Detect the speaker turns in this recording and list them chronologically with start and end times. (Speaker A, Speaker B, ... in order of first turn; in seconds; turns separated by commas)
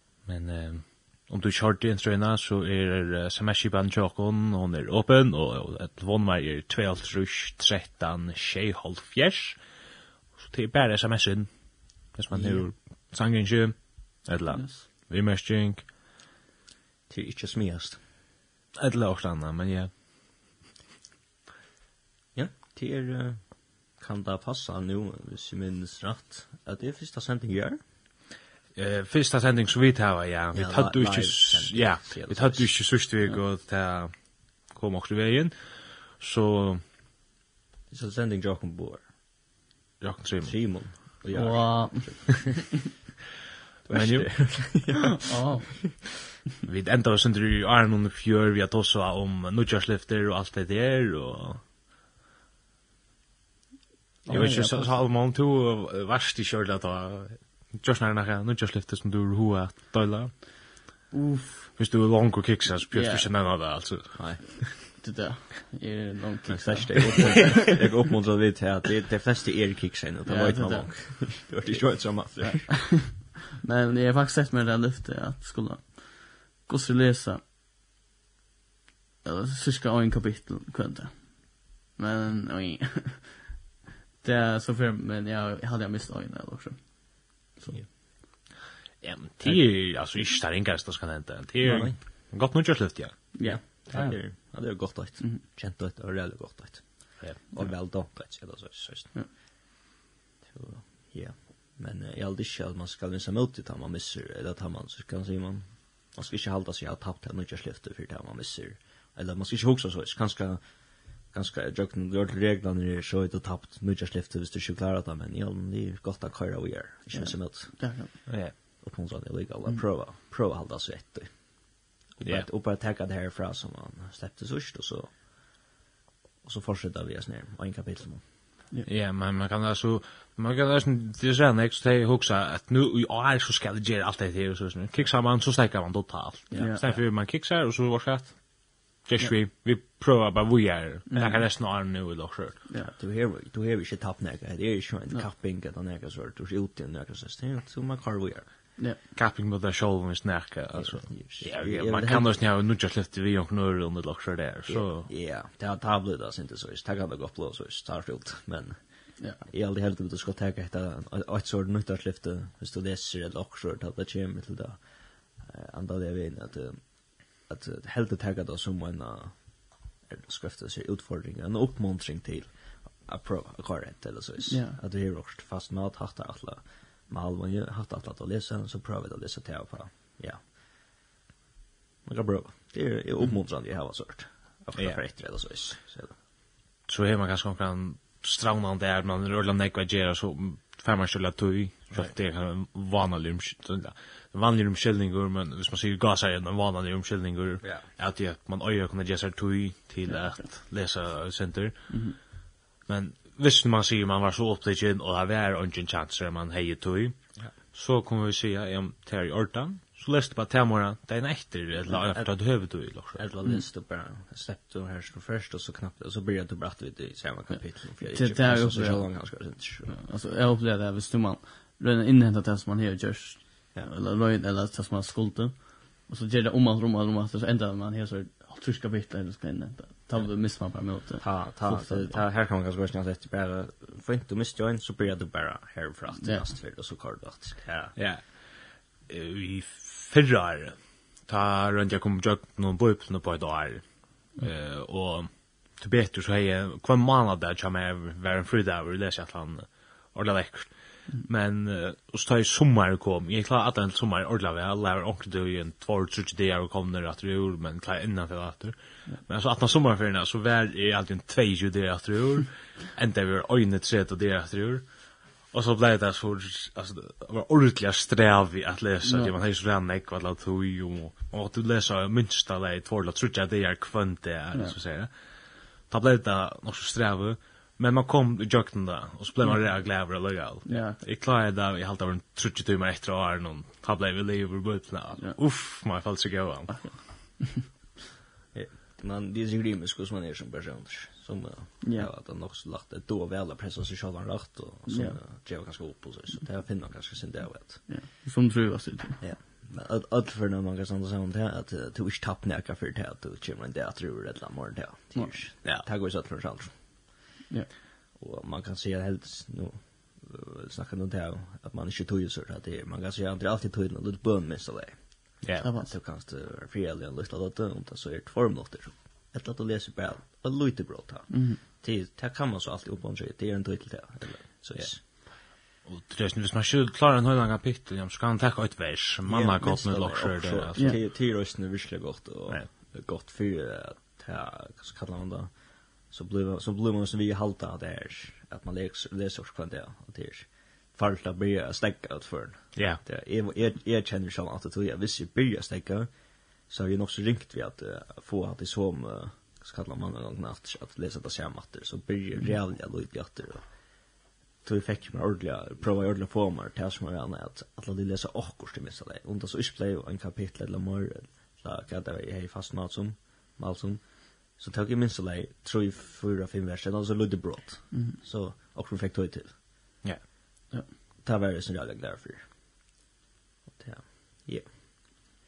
Speaker A: 0.2-9.7, Speaker A: 10.3-15.9, Speaker B: 12.3-12.7, Speaker C: 14.5-14.8, Speaker B: 17.1-18.0, Speaker A: 18.8-20.5, Speaker B: 22.3-27.8, Speaker A: 28.8-36.8, Speaker B: 30.5-32.8, Speaker B: 37.9-39.1, Speaker A: 40.0-41.0, Speaker B: 40.4-43.0, Speaker C: 41.3-42.6, Speaker B: 43.9-45.6, Speaker A: 43.9-44.6, Speaker C: 45.2-46.0, Speaker A: 46.6-51.6, Speaker C: 54.3-55.0, Speaker A: 54.3-60.6, Speaker B: 54.3-54.5, Speaker C: 61.1-61.8, Speaker A: 61.8-64.7, Speaker C: 62.9-63.3, Speaker B: 64.2-64.6, Speaker C: 64.8-67.5, Speaker B: 66.5-73.0, Speaker C: 70.3-77.4, Speaker C: 79.2-83.5, Speaker C: 84.2-87.8, Speaker A: 89.0-93.3, Speaker B: 91.6-92.0, Speaker C: 93.3-95.4, Speaker B: 93.4-99.4, Speaker A: 97.2-97.8, Speaker B: 100.5-125.7, Speaker C: 117.1-118.1, Speaker A: 118.3-118.5, Speaker B: 126.4-128.3, Speaker A: 128.8-142.7, Speaker B: 136.5-137.0, Speaker C: 136.6-136.8, Speaker C: 141.1-141.5, Speaker B: 142.9-148.5, Speaker A: 149.2-155.1, Speaker B: 150.7-152.4, Speaker B: 154.7-181.1, Speaker C: 174.5-174.8, Speaker B: 182.1-186.2, Speaker A: 186.9-201.9, Speaker B: 197.6-197.9, Speaker C: 200.1-200.4, Speaker C: 201.9-202.2, Speaker A: 202.9-207.2, Speaker A: 207.7-213.2, Speaker B: 211.9-220.0, Speaker C: 217.5-232.2, Speaker B: 231.2-238.0, Speaker C: 236.2-236.5, Speaker A: 238.0-287.1, Speaker C: 269.1-269.3, Speaker C: 279.4-279.8, Speaker C: 280.7-281.0, Speaker C: 286.7-287.7, Speaker B: 288.5-298.0, Speaker C: 291.8-292.1, Speaker C: 294.9-295.2, Speaker C: 297.9-299.2, Speaker B: 299.2-307.2, Speaker B: 308.2-325.0, Speaker A: 315.4-315.7, Speaker C: 315.6-315.9, Speaker C: 321.3-321.6, Speaker A: 324.8-331.0, Speaker B: 329.3-353.9, Speaker A: 342.8-343.0, Speaker B: 354.6-369.6, Speaker C: 367.9-368.2, Speaker B: 371.2-372.4, Speaker B: 373.8-374.7